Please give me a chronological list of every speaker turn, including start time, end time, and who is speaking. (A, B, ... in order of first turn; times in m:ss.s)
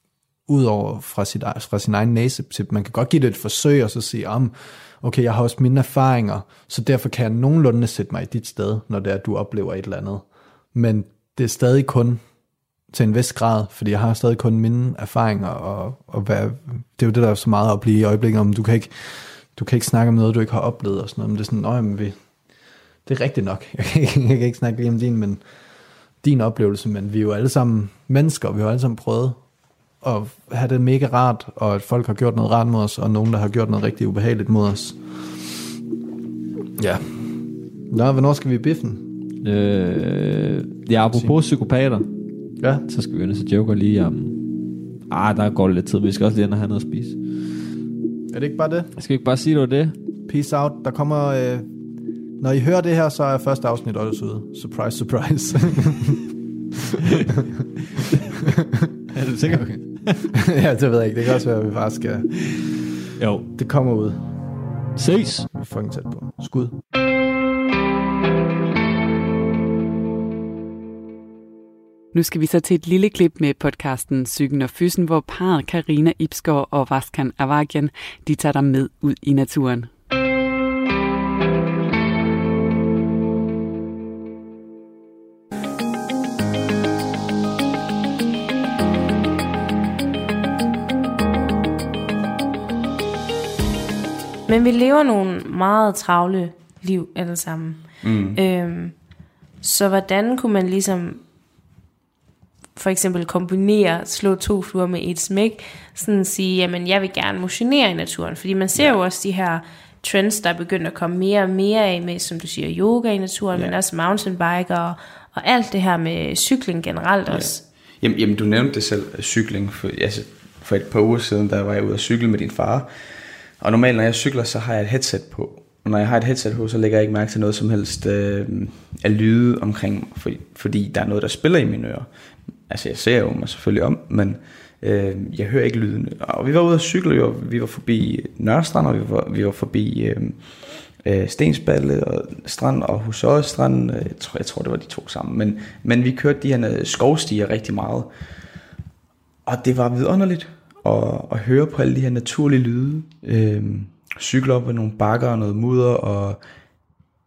0:00.5-0:12.2 A
0:12.9-0:22.2 A
0:23.1-0:25.4 A
0:26.2-0:29.4 A
0:30.0-0:35.0 A
0:36.8-0:39.1 A
0:39.4-0:42.1 B
0:42.6-0:42.8 A
0:42.8-0:47.2 B
0:48.3-0:48.9 A
0:49.0-0:50.0 B
0:50.3-0:51.7 A
0:52.4-0:56.3 A
0:57.0-0:57.3 A
0:59.1-1:00.4 B
0:59.3-1:02.9 A
1:03.2-1:03.5 B
1:03.5-1:04.4 A
1:05.0-1:05.5 B
1:05.2-1:06.8 A
1:12.1-1:19.9 C
1:34.5-1:39.0 D
1:38.0-1:38.4 E
1:39.6-1:41.2 D
1:42.8-1:57.6 D
1:48.7-1:49.0 E
1:57.3-2:03.0 E
2:03.6-2:12.1 E
2:12.7-2:28.1 E
2:29.4-2:36.4 E